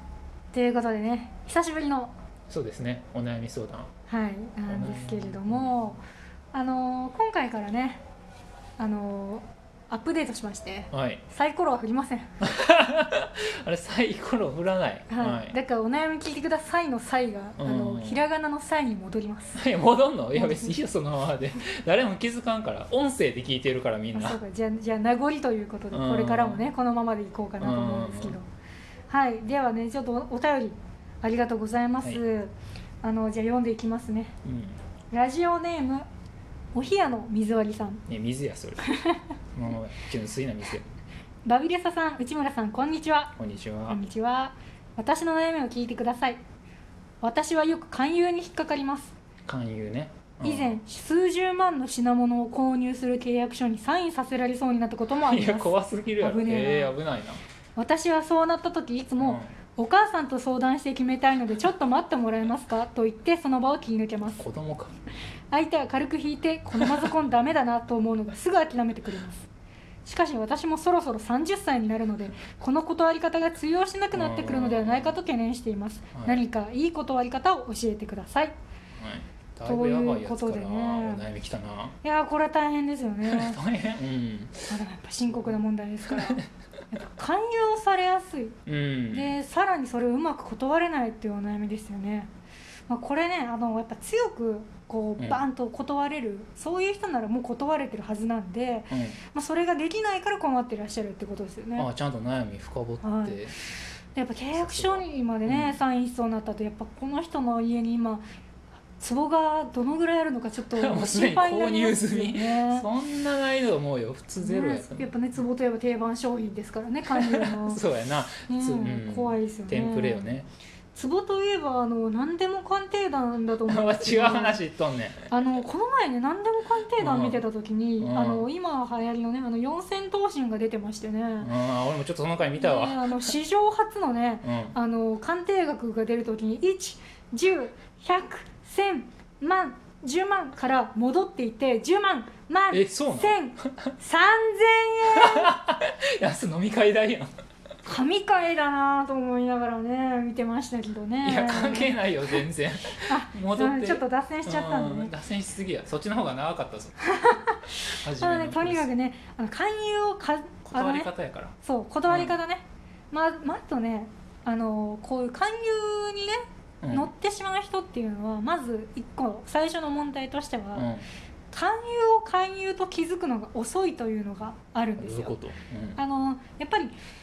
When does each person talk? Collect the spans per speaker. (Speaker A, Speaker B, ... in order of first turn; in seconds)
Speaker A: 0.5-2.1, 4.1-6.0, 6.5-8.0, 8.8-12.3, 15.1-19.6, 20.4-20.8, 24.1-28.5, 29.1-34.4, 35.1-36.0, 36.8-38.0, 38.9-39.3, 41.5-43.4, 43.9-46.4, 47.2-49.1, 50.4-57.0, 57.8-64.4, 65.5-69.5, 70.0-78.5, 79.7-81.2, 82.0-83.6, 84.7-88.6, 89.1-92.3, 92.9-101.9, 103.0-103.4, 104.2-108.2, 109.0-112.9, 114.4-117.8, 118.5-120.3, 121.0-124.6, 125.3-131.5, 132.6-145.5, 147.8-152.4, 153.1-155.1, 157.0-161.1, 161.6-170.9, 171.5-175.4, 176.0-176.9
Speaker B: 2.5-3.9, 4.7-5.9, 10.9-11.2, 12.4-15.6, 17.6-18.2, 19.6-24.4, 25.9-26.6, 27.6-28.4, 34.4-34.8, 38.1-38.9, 39.5-40.9, 43.4-44.0, 49.5-50.8, 55.2-57.4, 59.2-59.5, 64.4-65.0, 66.8-67.1, 74.1-75.2, 76.2-76.5, 79.0-82.0, 83.2-84.7, 85.3-86.5, 88.7-89.3, 98.9-99.2, 101.8-103.5, 104.5-105.8, 110.7-115.1, 117.1-120.5, 123.7-125.3, 127.0-127.5, 128.0-128.5, 131.4-133.3, 134.4-134.8, 142.7-143.9, 145.1-147.3, 151.2-157.1, 157.9-158.9, 160.7-161.5, 162.1-162.4, 166.8-167.1, 170.8-171.0, 175.0-176.0